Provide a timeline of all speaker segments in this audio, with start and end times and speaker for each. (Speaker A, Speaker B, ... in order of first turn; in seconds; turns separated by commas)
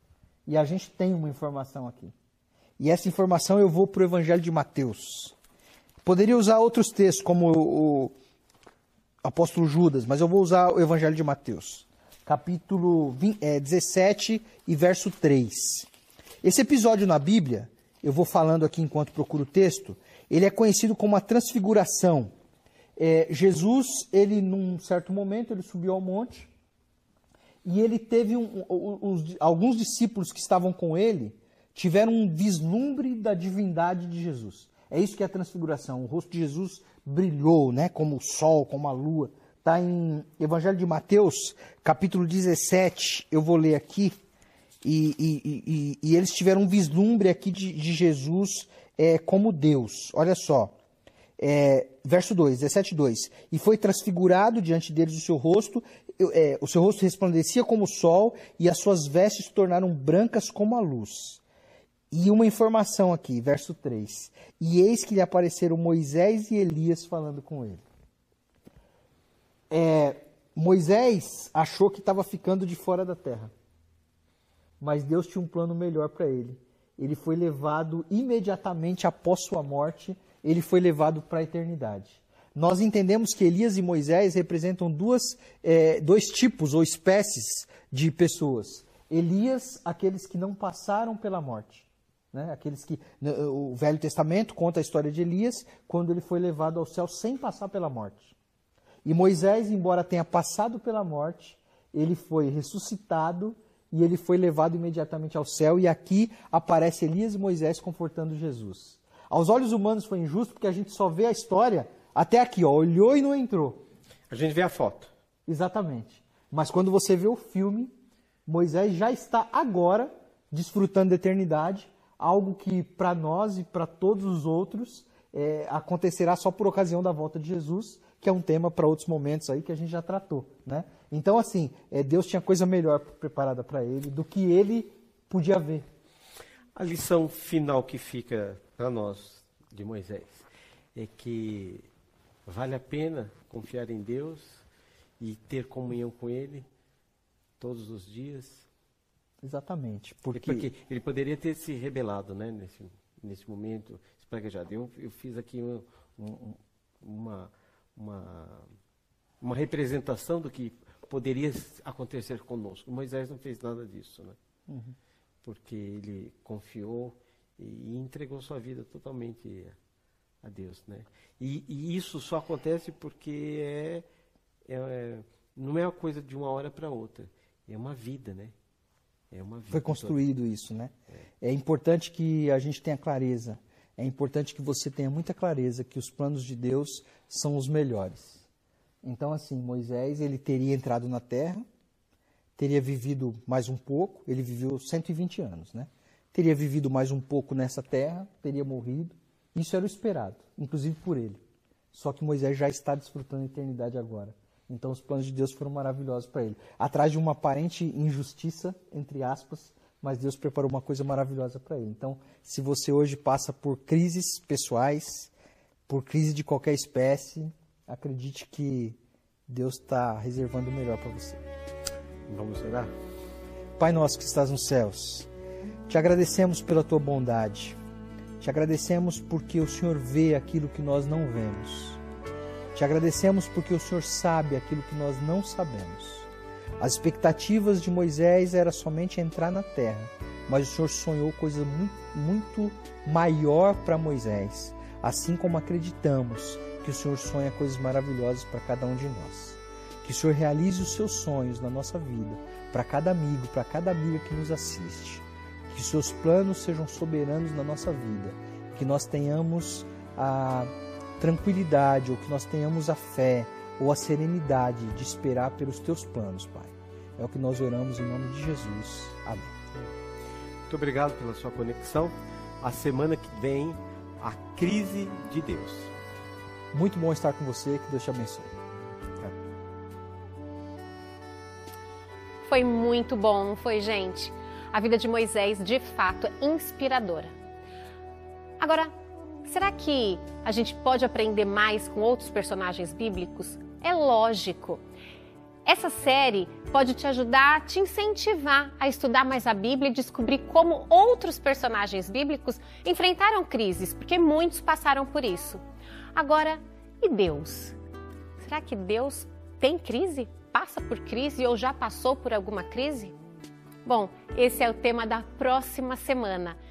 Speaker A: 0.5-2.1, Speaker A: 2.8-5.3, Speaker A: 6.0-8.1, Speaker A: 9.2-15.9, Speaker A: 16.4-22.3, Speaker A: 23.0-26.5, Speaker A: 27.6-44.2, Speaker A: 44.8-50.7, Speaker A: 51.4-61.4, Speaker A: 62.1-67.8, Speaker A: 69.7-73.5, Speaker A: 74.8-98.3, Speaker A: 99.0-113.9, Speaker B: 114.3-115.1, Speaker A: 115.5-117.9, Speaker A: 118.5-135.9, Speaker B: 136.8-141.8, Speaker B: 142.5-144.6, Speaker B: 145.2-146.7, Speaker B: 147.6-148.7, Speaker A: 149.4-150.7, Speaker B: 150.3-158.7, Speaker B: 159.4-164.4, Speaker A: 164.7-165.0, Speaker B: 165.4-169.8, Speaker B: 170.4-174.1, Speaker B: 174.7-178.5, Speaker B: 179.3-180.2, Speaker A: 179.7-188.5, Speaker A: 189.0-191.6, Speaker A: 192.6-201.4, Speaker A: 201.9-215.3, Speaker A: 215.9-219.0, Speaker A: 219.5-221.4, Speaker B: 222.3-222.9, Speaker A: 223.8-225.3, Speaker A: 225.9-227.8, Speaker A: 228.4-232.0, Speaker A: 232.7-236.3, Speaker A: 236.8-269.6, Speaker B: 270.7-275.9, Speaker A: 276.7-278.5, Speaker C: 282.4-287.3, Speaker C: 288.6-288.9, Speaker C: 289.4-294.8, Speaker C: 295.7-305.6, Speaker C: 306.1-307.8, Speaker C: 308.4-313.1, Speaker C: 313.9-316.6